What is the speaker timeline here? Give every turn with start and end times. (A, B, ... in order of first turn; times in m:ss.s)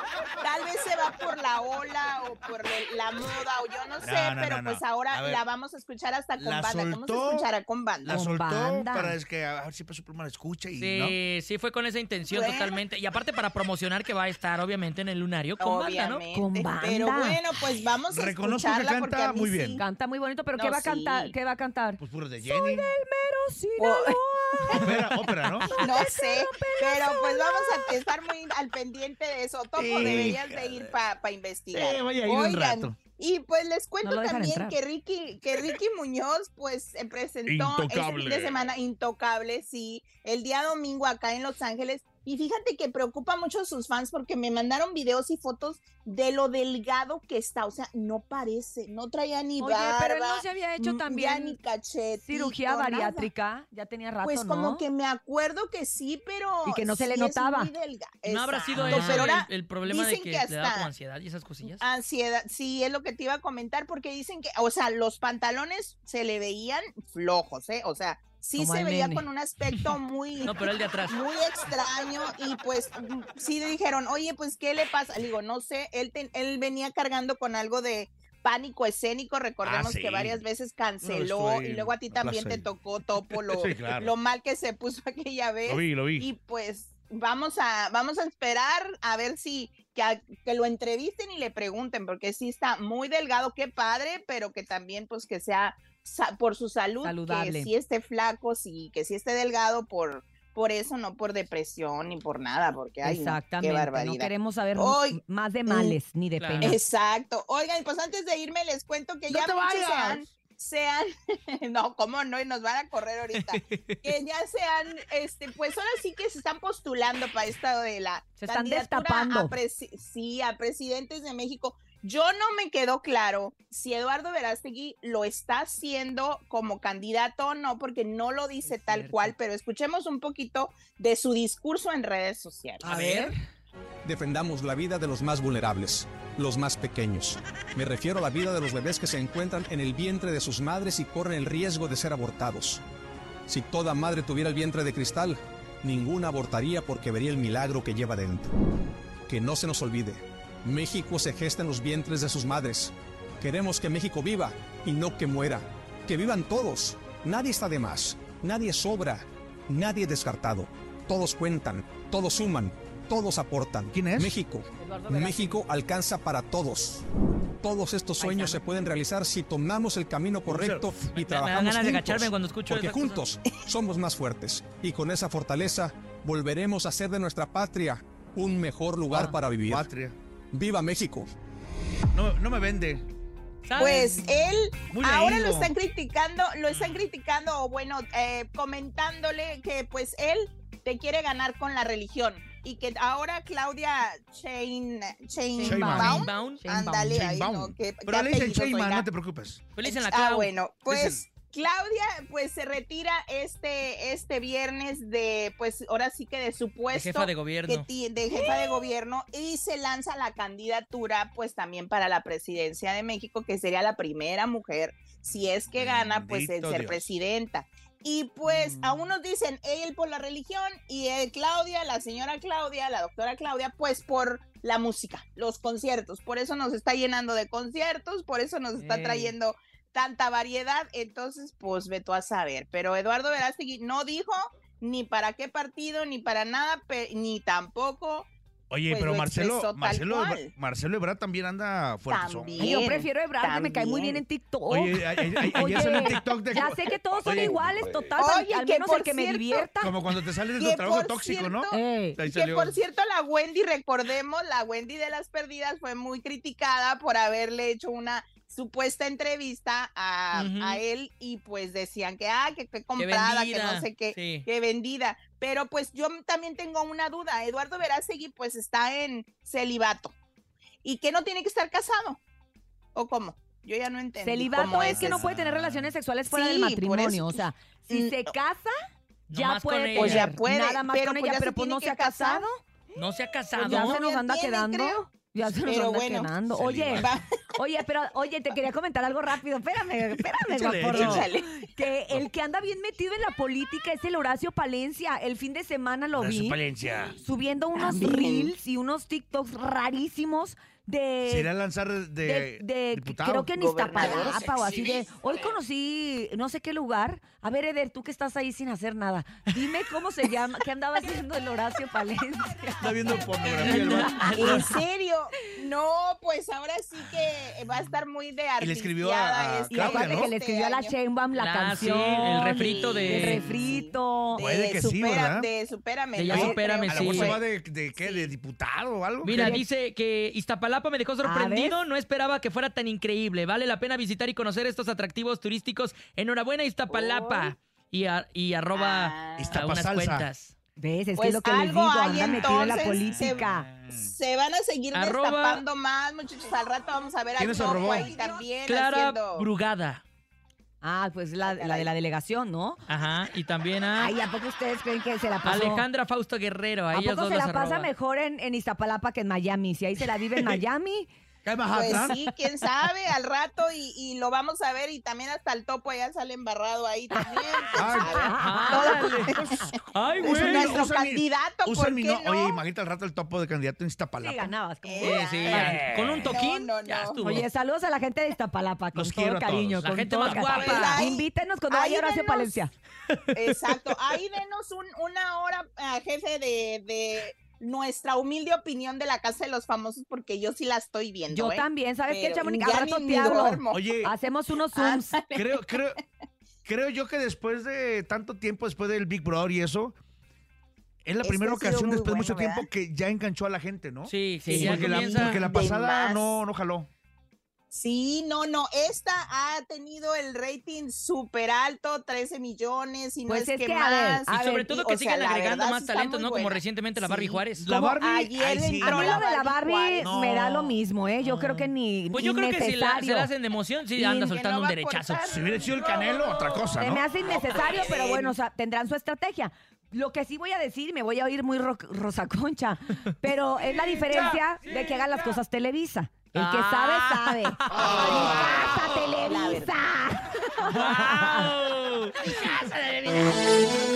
0:00.4-0:08.2 A
0:04.0-0:05.4 B
0:06.4-0:07.5 B
0:08.0-0:11.2 B
0:08.1-0:09.2 C
0:10.8-0:16.2 D
0:12.3-0:12.8 A
0:15.6-0:19.8 A
0:16.3-0:17.4 C
0:18.1-0:19.8 B
0:19.8-0:24.9 C
0:20.5-0:21.3 A
0:22.0-0:22.9 B
0:23.8-0:24.2 A
0:24.7-0:25.7 B
0:25.6-0:53.3 A
0:25.7-0:27.9 C
0:29.8-0:30.9 B
0:31.7-0:33.0 B
0:34.0-0:34.8 C
0:37.4-0:38.6 B
0:49.6-0:51.6 C
0:52.2-0:54.8 C
0:54.2-1:00.9 A
0:56.6-0:57.7 C
0:58.2-1:01.8 D
0:58.9-0:59.2 C
1:01.7-1:46.0 A
1:08.6-1:09.2 C
1:10.4-1:11.2 D
1:19.6-1:20.4 B
1:21.0-1:22.7 B
1:23.2-1:24.1 B
1:25.7-1:26.3 B
1:37.0-1:37.7 C
1:43.0-1:46.8 C
1:46.4-1:46.8 D
1:46.6-2:12.9 A
1:49.3-1:50.3 B
1:53.3-1:54.0 D
1:58.4-1:59.5 C
2:08.6-2:09.3 C
2:12.8-2:13.3 D
2:12.8-2:13.2 B
2:14.0-2:22.8 E
2:23.5-2:28.5 E
2:29.3-2:47.0 E
2:43.9-2:44.4 B
2:45.0-2:45.5 C
2:47.6-2:59.9 E
2:48.2-2:48.6 C
2:50.5-2:51.1 B
2:51.1-2:53.2 D
2:59.1-3:00.1 B
3:00.5-3:01.3 E
3:02.1-3:03.0 B
3:03.6-3:04.2 D
3:03.8-3:19.0 A
3:04.9-3:05.7 B
3:06.7-3:07.0 D
3:15.6-3:16.9 C
3:15.6-3:19.7 B
3:16.0-3:16.6 D
3:19.7-3:20.5 D
3:19.8-3:58.3 A
3:20.8-3:21.2 B
3:26.9-3:27.8 D
3:35.7-3:37.1 B
3:38.5-3:39.1 C
3:48.8-3:49.3 C
3:58.7-4:02.8 B
3:58.9-4:00.5 A
4:02.1-4:04.2 A
4:02.6-4:09.9 C
4:04.7-4:07.8 B
4:08.2-4:09.7 A
4:09.8-4:12.7 B
4:10.5-4:30.1 A
4:11.7-4:12.2 C
4:20.3-4:20.8 D
4:23.0-4:24.4 D
4:30.8-4:32.2 A
4:32.9-4:35.3 A
4:34.2-4:38.7 C
4:35.0-4:35.9 B
4:36.3-4:38.3 A
4:39.3-4:40.3 D
4:39.3-4:42.6 C
4:40.0-4:42.5 A
4:43.0-4:44.0 D
4:43.6-4:46.3 A
4:43.6-4:47.1 C
4:46.5-4:47.1 B
4:47.0-4:47.2 A
4:47.6-4:56.6 C
4:50.5-4:51.2 B
4:50.9-4:51.7 A
4:56.1-4:57.2 B
4:57.2-5:01.5 C
4:57.8-4:58.5 A
5:01.2-5:03.6 B
5:02.2-5:12.9 C
5:03.6-5:04.7 A
5:12.8-5:14.6 B
5:13.6-5:14.7 D
5:14.3-5:21.0 A
5:18.6-5:20.3 B
5:19.7-5:24.4 C
5:21.3-5:23.5 D
5:22.2-5:27.4 A
5:24.4-5:25.5 B
5:26.1-5:27.4 D
5:26.3-5:26.6 C
5:26.3-5:29.5 B
5:28.0-5:28.3 A
5:29.2-5:40.5 D
5:29.3-5:29.6 C
5:31.2-5:31.8 C
5:36.9-5:37.5 A
5:38.7-5:39.6 A
5:39.4-5:40.3 B
5:40.8-5:43.7 C
5:41.1-5:49.5 A
5:42.2-5:43.9 B
5:44.9-5:45.6 D
5:47.4-5:48.1 B
5:48.6-5:50.0 D
5:50.8-5:52.8 C
5:51.4-5:51.9 A
5:52.9-5:54.1 D
5:54.0-5:55.8 C
5:55.4-5:57.9 D
5:56.9-6:01.1 C
6:01.4-6:02.2 B
6:01.7-6:12.6 A
6:07.8-6:14.5 B
6:07.9-6:09.7 C
6:08.4-6:09.4 D
6:09.9-6:10.7 D
6:14.2-6:15.2 C
6:14.8-6:17.3 A
6:15.0-6:17.4 D
6:15.5-6:16.3 B
6:17.2-6:22.7 C
6:18.9-6:20.4 B
6:19.8-6:21.1 D
6:20.4-6:22.6 A
6:23.3-6:34.1 A
6:31.3-6:35.2 C
6:33.7-6:34.1 B
6:34.7-6:35.7 A
6:35.3-6:36.0 B
6:36.6-6:40.0 B
6:41.0-6:46.9 B
6:41.2-6:42.7 A
6:44.1-6:45.4 D
6:44.4-6:45.3 C
6:44.6-6:46.4 A
6:47.7-7:00.1 A
6:53.3-6:54.7 C
6:54.3-6:57.7 D
6:57.5-6:59.2 B
6:58.8-7:03.3 C
7:00.0-7:00.8 B
7:01.2-7:05.3 D
7:04.0-7:06.5 A
7:05.2-7:07.1 B
7:06.8-7:21.5 C
7:07.2-7:08.3 A
7:16.3-7:18.8 D
7:19.2-7:19.7 A
7:20.7-7:23.4 D